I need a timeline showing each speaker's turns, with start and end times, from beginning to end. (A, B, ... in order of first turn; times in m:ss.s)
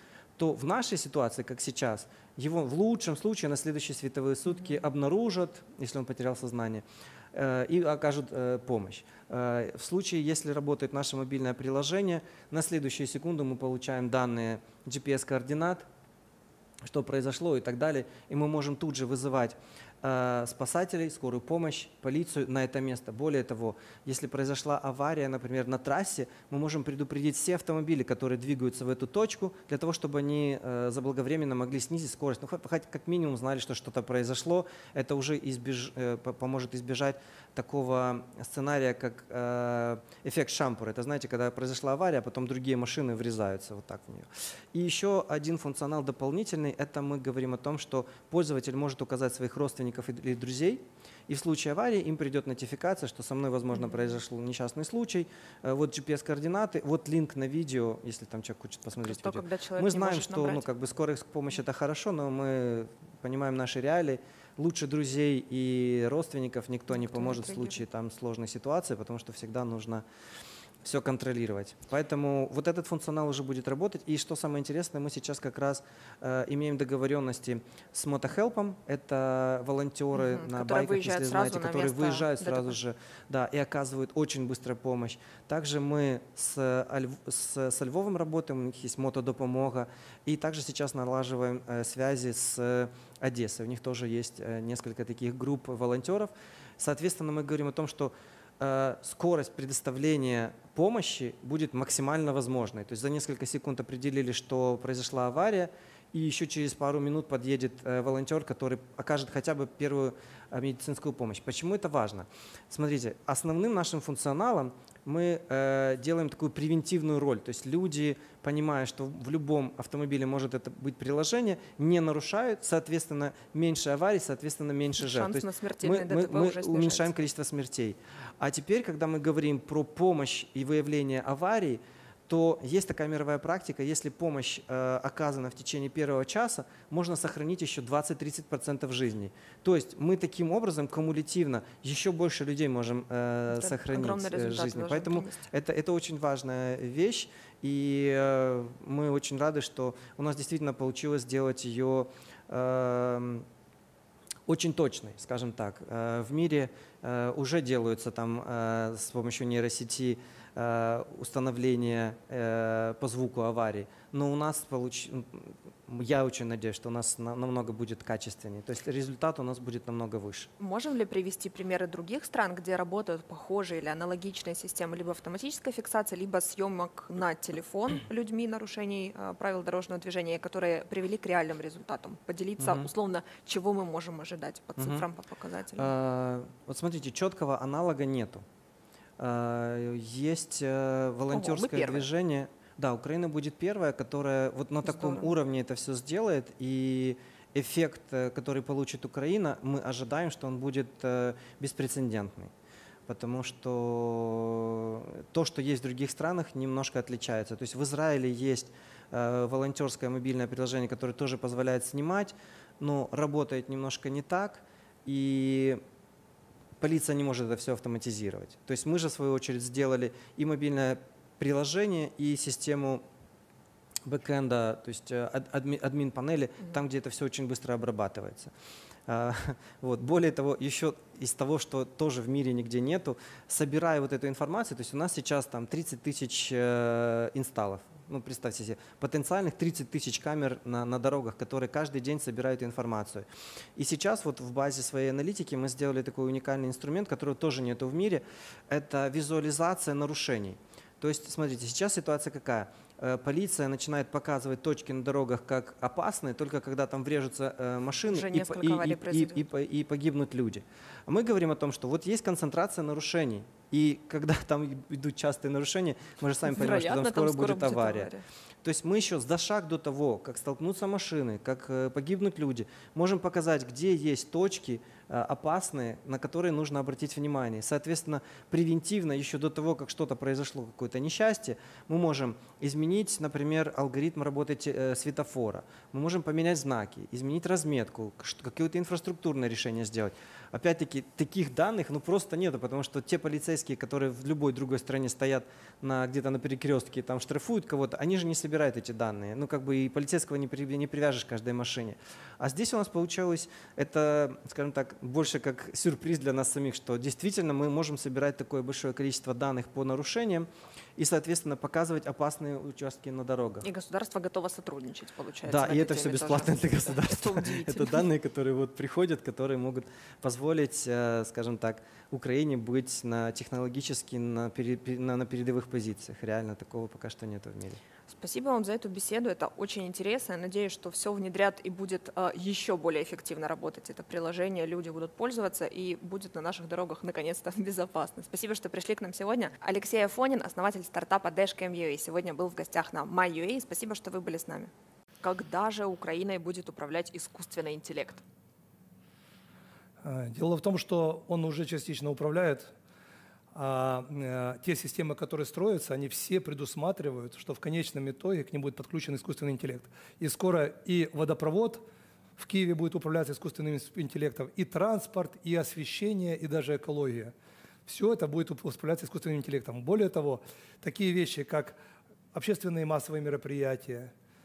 0:00.4-0:15.9 A
0:16.8-1:10.0 A
0:59.0-1:00.7 B
1:06.9-1:07.8 B
1:10.8-2:33.5 A
1:20.1-1:22.8 B
2:05.0-2:07.1 B
2:23.5-2:25.4 B
2:34.5-2:50.5 A
2:50.6-3:05.9 B
3:02.6-3:02.9 A
3:04.8-3:05.0 A
3:05.8-3:08.4 A
3:09.2-3:22.5 A
3:11.3-3:12.0 B
3:14.9-3:15.3 B
3:23.1-3:35.8 A
3:36.8-3:43.0 A
3:44.0-3:48.5 A
3:49.1-4:03.2 A
4:03.8-4:28.1 A
4:18.1-4:19.4 B
4:26.5-4:28.2 B
4:28.6-5:13.7 A
5:13.6-5:18.0 B
5:15.4-5:27.8 A
5:28.1-5:44.7 B
5:45.2-5:48.2 B
5:50.0-5:52.7 C
5:53.5-6:01.8 C
6:02.4-6:07.3 C
6:07.9-6:11.8 C
6:12.3-6:14.1 C